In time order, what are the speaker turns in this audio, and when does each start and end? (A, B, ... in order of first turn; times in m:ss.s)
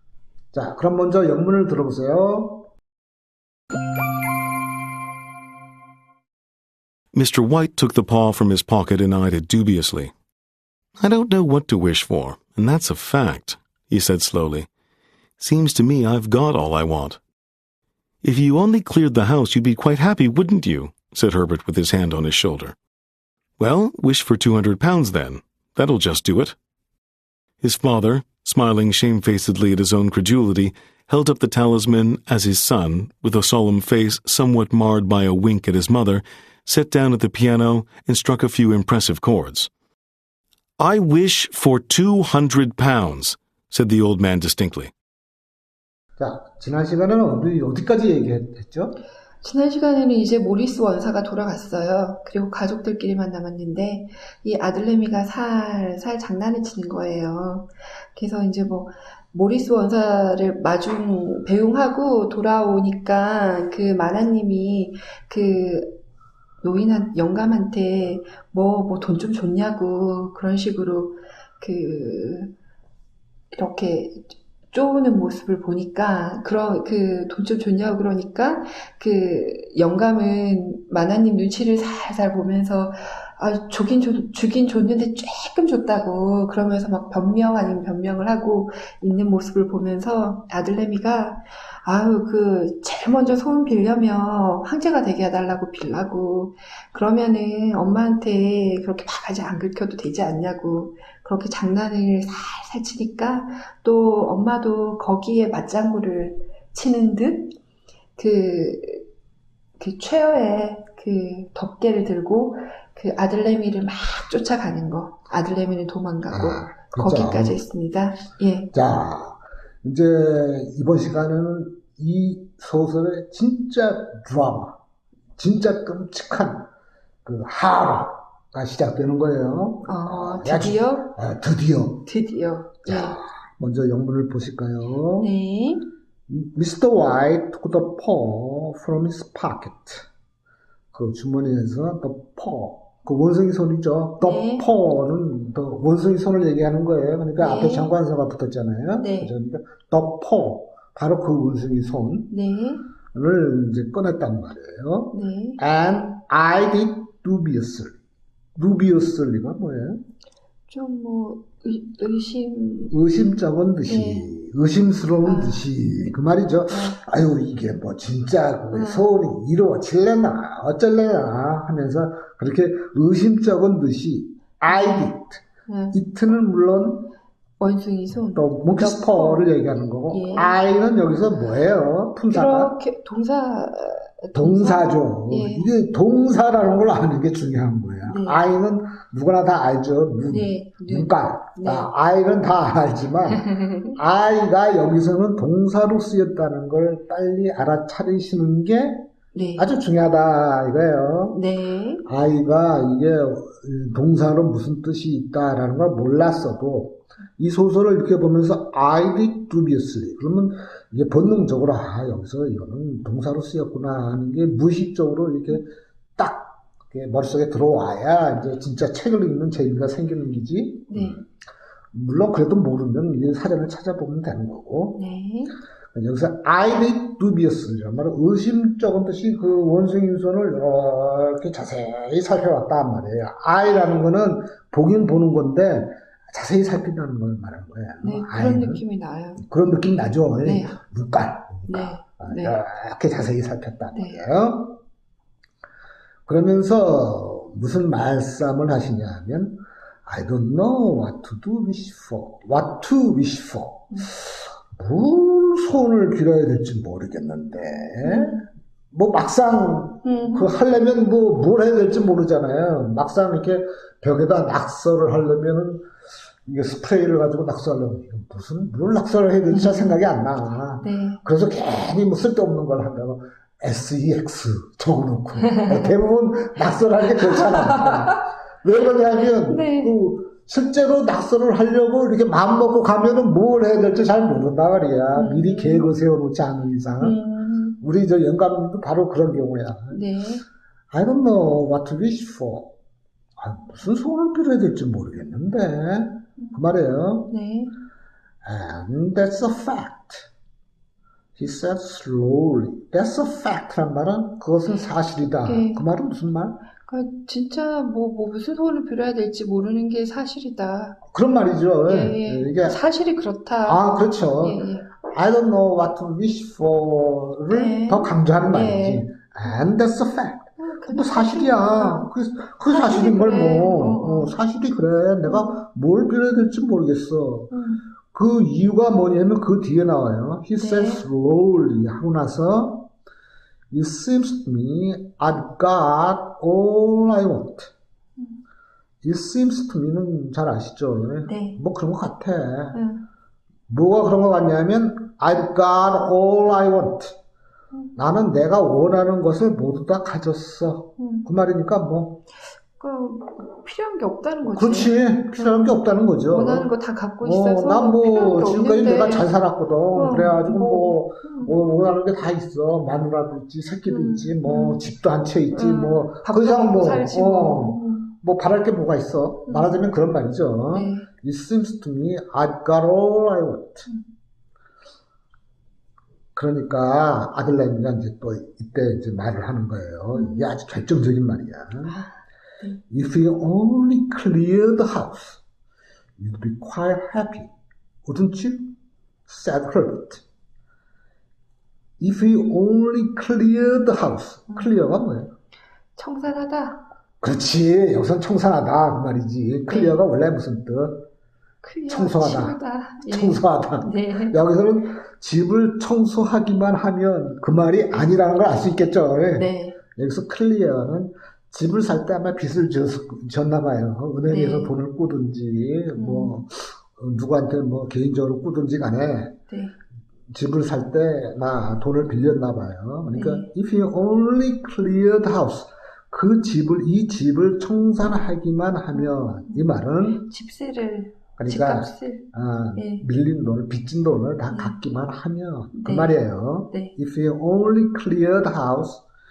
0:00.5-0:02.7 A
0:07.1-0:10.1 B
0:11.0-0:14.7 B
0:15.4-0:17.2 B
0:18.2-0:22.8 B
0:23.6-0:26.6 B
0:27.6-0:39.7 B
0:40.8-0:44.9 B
0:46.2-0:49.0 A
0:49.4-1:06.0 C
1:06.6-1:12.5 C
1:13.5-1:47.6 C
1:48.2-1:49.0 C
1:49.8-1:58.7 C
1:56.3-1:57.6 A
1:58.7-2:04.8 A
2:05.4-2:06.7 A
2:07.2-2:12.1 A
2:09.8-2:11.1 C
2:12.0-2:13.2 C
2:12.8-2:15.3 A
2:15.2-2:15.9 C
2:16.3-2:20.0 A
2:20.9-2:32.3 A
2:24.2-2:24.7 C
2:27.4-2:27.9 C
2:29.0-2:29.3 C
2:32.3-2:32.8 C
2:33.1-2:38.0 A
2:35.1-2:35.6 C
2:38.6-2:40.0 A
2:40.7-2:43.0 C
2:42.9-2:57.1 A
2:43.8-2:44.3 C
2:45.2-2:45.7 C
2:46.7-2:47.0 C
2:48.7-2:49.1 C
2:55.7-2:56.0 C
2:57.6-2:59.5 C
2:58.1-3:02.8 A
3:00.1-3:00.6 C
3:02.3-3:05.7 C
3:04.4-3:19.0 A
3:08.0-3:08.4 C
3:10.3-3:11.9 C
3:13.4-3:14.0 C
3:19.3-3:19.7 C
3:19.6-3:21.4 A
3:21.3-3:22.0 C
3:22.0-3:41.3 A
3:40.9-3:41.2 C
3:41.9-3:45.0 A
3:44.9-3:45.6 C
3:45.9-3:58.8 A
3:58.0-3:59.4 C
3:59.4-4:04.8 A
4:00.4-4:00.8 C
4:01.7-4:02.6 C
4:06.3-4:25.8 A
4:18.0-4:18.5 C
4:20.0-4:20.5 C
4:26.5-4:47.2 A
4:29.5-4:30.0 C
4:30.8-4:31.2 C
4:35.4-4:35.8 C
4:37.2-4:38.0 C
4:39.2-4:40.0 C
4:45.1-4:45.9 C
4:47.0-4:47.8 C
4:47.8-4:50.0 A
4:49.9-4:50.4 C
4:50.9-4:52.7 A
4:53.4-4:57.3 A
4:57.3-4:57.7 C
4:58.4-5:00.3 A
5:01.4-5:06.6 A
5:05.4-5:05.8 C
5:06.8-5:11.0 C
5:11.1-5:12.8 A
5:11.9-5:14.9 C
5:13.6-5:27.5 A
5:17.5-5:19.0 C
5:20.6-5:22.1 C
5:22.7-5:24.3 C
5:25.3-5:25.6 C
5:27.5-5:27.8 C
5:28.1-5:32.9 A
5:30.6-5:31.0 C
5:33.7-5:37.7 A
5:39.0-5:42.8 A
5:41.2-5:41.6 C
5:42.7-5:43.0 C
5:43.7-5:47.2 A
5:48.0-5:52.2 A
5:51.0-5:51.3 C
5:52.8-5:59.3 C
5:54.5-6:13.9 A
5:59.9-6:01.6 C
6:03.9-6:04.8 C
6:05.5-6:08.1 C
6:09.5-6:09.8 C
6:10.7-6:11.1 C
6:16.4-6:22.0 A
6:20.2-6:20.5 C
6:22.9-6:25.4 A
6:26.2-6:27.5 A
6:28.0-6:28.7 A
6:29.3-6:30.2 A
6:32.0-6:35.3 A
6:34.5-6:34.9 C
6:36.0-6:36.8 C
6:37.2-6:41.0 A
6:39.7-6:40.0 C
6:41.6-6:44.4 C
6:41.9-6:59.4 A
6:49.4-6:49.8 C
6:54.2-6:54.7 C
6:56.0-6:56.4 C
6:59.5-6:59.7 C
7:00.3-7:10.2 A
7:03.1-7:03.5 C
7:08.9-7:13.0 C
7:11.4-7:19.0 A
7:14.5-7:14.8 C
7:15.8-7:16.2 C